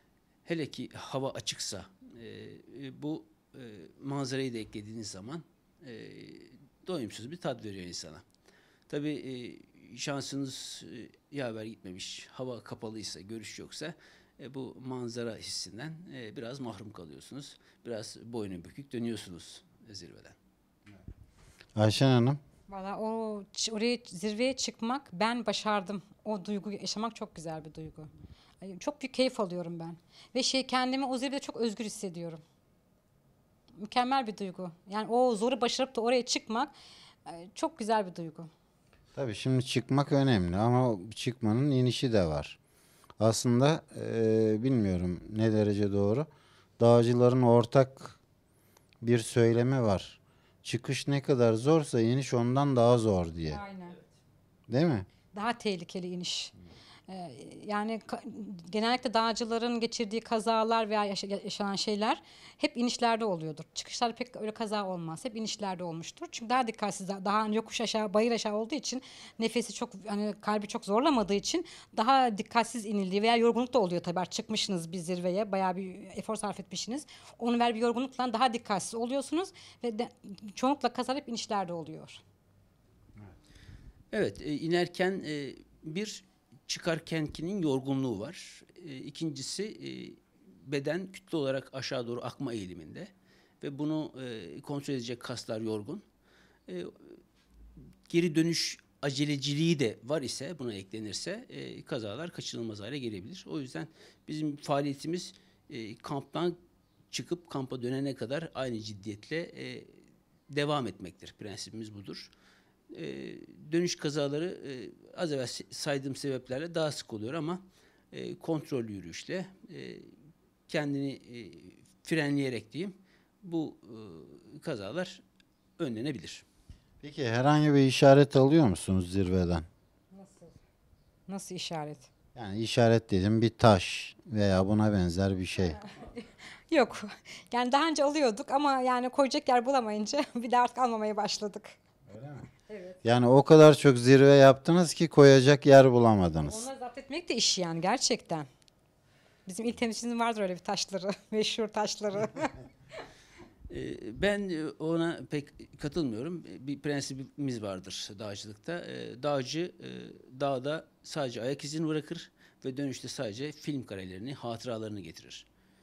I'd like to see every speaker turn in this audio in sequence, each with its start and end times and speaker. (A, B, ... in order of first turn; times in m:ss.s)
0:00.4-0:08.2 A
0:08.9-0:20.4 A
0:21.8-0:22.4 B
0:22.7-0:28.1 C
0:28.6-0:32.4 C
0:33.8-0:36.7 C
0:37.3-0:38.5 C
0:39.1-0:42.6 B
0:43.2-0:46.3 B
0:46.8-0:48.2 B
0:49.0-0:53.6 B
0:53.5-0:54.0 C
0:54.7-0:55.1 B
0:55.3-0:56.5 C
0:57.1-1:22.2 C
1:24.1-1:36.0 A
1:36.7-1:37.2 A
1:38.1-1:46.6 A
1:47.1-1:50.0 A
1:50.5-1:52.3 A
1:52.9-2:00.1 A
2:00.7-2:05.2 A
2:05.8-2:06.4 A
2:07.0-2:09.7 B
2:10.1-2:10.6 C
2:11.3-2:12.1 C
2:12.4-2:15.8 B
2:15.8-2:21.8 C
2:22.1-2:22.5 B
2:22.7-2:23.0 C
2:23.0-2:26.7 B
2:26.4-2:28.5 C
2:29.5-2:32.6 C
2:33.7-2:45.5 A